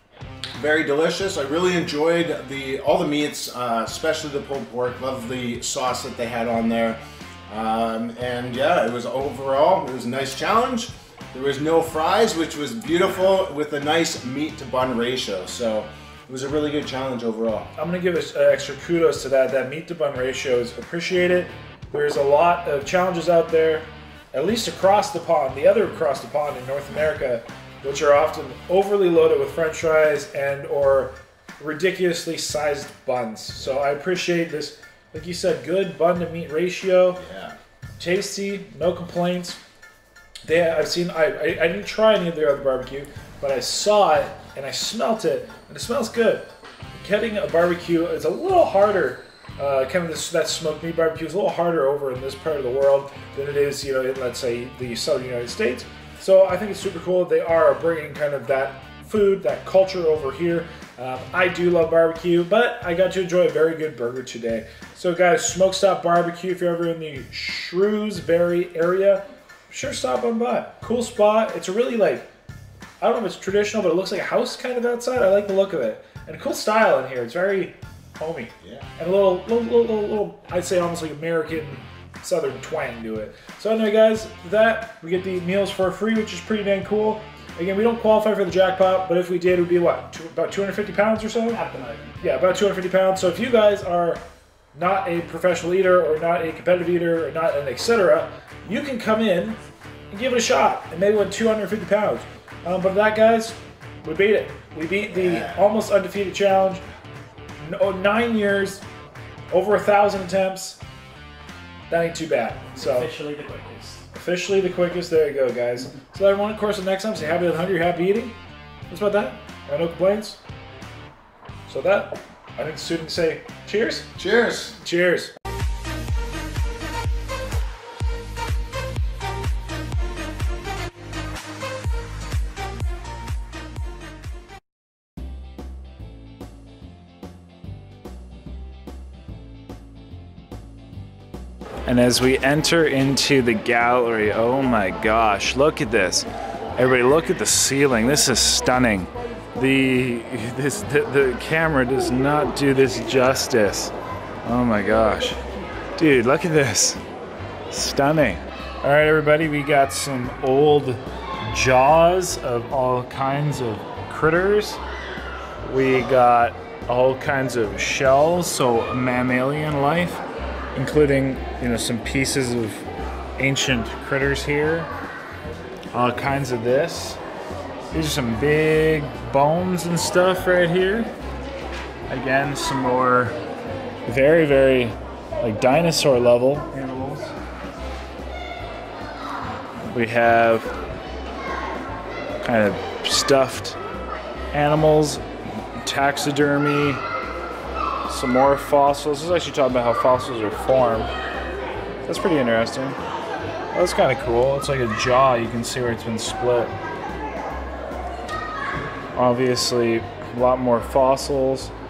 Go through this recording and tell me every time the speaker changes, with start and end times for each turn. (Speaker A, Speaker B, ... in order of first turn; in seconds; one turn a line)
Speaker A: 0.6-17.7
Speaker B: 17.8-37.2
Speaker A: 37.2-37.6
Speaker B: 38.0-39.6
Speaker B: 40.4-72.3
Speaker B: 73.0-91.6
Speaker C: 91.5-92.2
Speaker B: 92.2-94.2
Speaker B: 94.7-106.8
Speaker A: 105.1-105.6
Speaker B: 107.6-108.8
Speaker B: 109.5-110.8
Speaker B: 111.9-113.1
Speaker C: 112.8-114.1
Speaker B: 114.1-118.3
Speaker B: 118.9-120.4
Speaker B: 121.7-124.1
Speaker A: 124.2-124.8
Speaker B: 124.8-125.3
Speaker B: 141.8-153.9
Speaker B: 154.4-155.4
Speaker B: 156.0-157.0
Speaker B: 157.7-164.8
Speaker B: 165.6-170.2
Speaker B: 170.8-172.9
Speaker B: 173.4-174.9
Speaker B: 175.9-177.2
Speaker B: 177.9-181.1
Speaker B: 182.1-183.4
Speaker B: 184.1-187.2
Speaker B: 189.9-190.7
Speaker B: 192.4-193.8
Speaker B: 194.5-195.2
Speaker B: 195.8-197.0
Speaker B: 198.1-201.1
Speaker B: 202.0-203.0
Speaker B: 203.7-206.8
Speaker B: 209.2-211.7